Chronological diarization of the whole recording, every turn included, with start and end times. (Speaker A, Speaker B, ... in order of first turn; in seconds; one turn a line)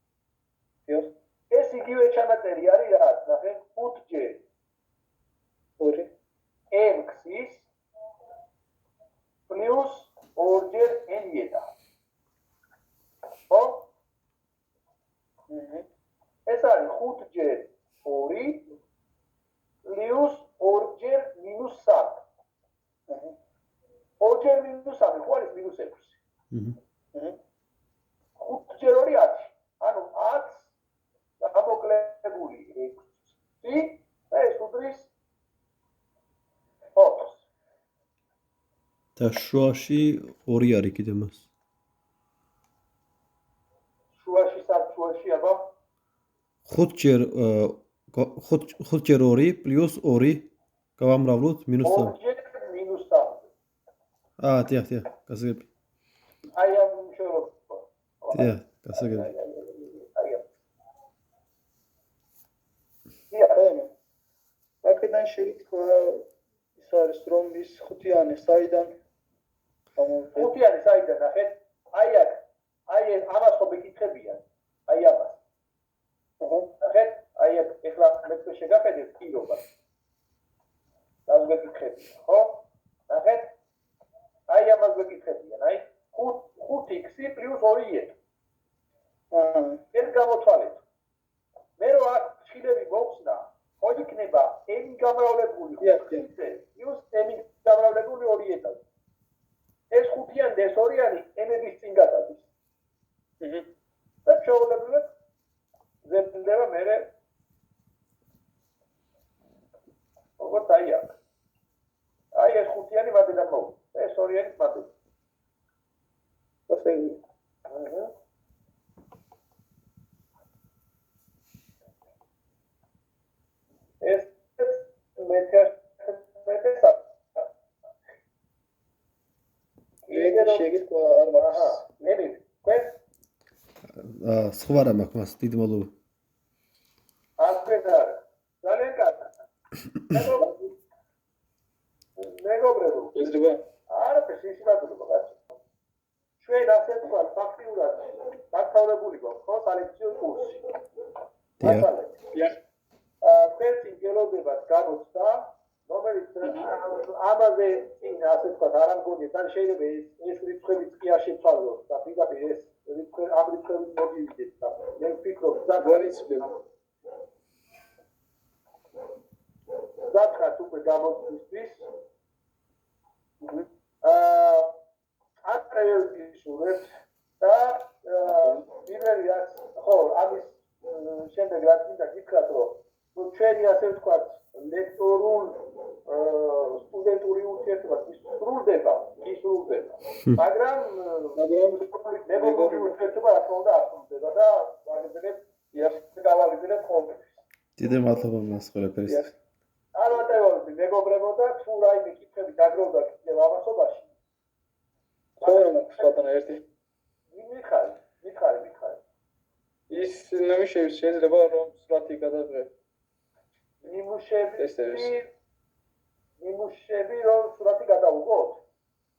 Speaker A: 1.5-4.4
Speaker B: 5.8-6.1
Speaker A: 6.7-7.7
Speaker A: 9.5-11.7
Speaker A: 13.5-13.9
Speaker B: 15.5-15.9
Speaker A: 16.5-18.7
Speaker A: 19.9-22.2
Speaker B: 23.1-23.4
Speaker A: 24.2-26.2
Speaker C: 26.5-26.8
Speaker A: 28.4-30.7
Speaker A: 31.4-35.1
Speaker A: 37.0-37.4
Speaker C: 39.2-41.5
Speaker A: 44.2-45.7
Speaker C: 46.7-52.1
Speaker A: 51.8-53.5
Speaker C: 54.4-55.7
Speaker A: 56.5-60.5
Speaker C: 58.3-59.3
Speaker A: 63.3-63.6
Speaker B: 63.5-63.9
Speaker B: 64.8-69.0
Speaker B: 70.0-70.5
Speaker A: 70.3-75.4
Speaker B: 76.4-76.7
Speaker A: 76.8-79.7
Speaker A: 81.3-83.5
Speaker A: 84.5-88.2
Speaker B: 89.3-89.8
Speaker A: 89.9-90.8
Speaker A: 91.8-98.8
Speaker B: 95.8-96.3
Speaker A: 99.9-102.5
Speaker B: 103.4-103.7
Speaker A: 104.3-105.1
Speaker A: 106.0-107.1
Speaker A: 110.4-111.2
Speaker A: 112.3-114.9
Speaker B: 116.7-117.2
Speaker A: 117.7-118.1
Speaker A: 124.0-127.5
Speaker A: 130.1-130.7
Speaker B: 130.1-132.0
Speaker A: 131.4-133.0
Speaker C: 133.9-135.9
Speaker A: 137.4-139.4
Speaker A: 140.1-140.7
Speaker A: 142.2-143.2
Speaker B: 143.2-143.6
Speaker A: 143.9-145.4
Speaker A: 146.4-150.7
Speaker C: 151.6-151.9
Speaker A: 151.6-152.2
Speaker A: 153.2-166.6
Speaker B: 156.4-156.7
Speaker B: 165.8-166.5
Speaker A: 170.1-171.8
Speaker B: 173.4-173.7
Speaker A: 174.0-174.7
Speaker A: 175.4-195.4
Speaker B: 191.3-192.9
Speaker B: 195.7-196.0
Speaker A: 196.0-197.4
Speaker C: 197.8-199.3
Speaker B: 199.1-199.3
Speaker A: 199.9-204.1
Speaker B: 205.4-206.7
Speaker A: 205.4-206.1
Speaker A: 207.3-209.0
Speaker B: 209.9-212.7
Speaker A: 213.8-215.3
Speaker B: 214.6-215.1
Speaker A: 216.4-218.6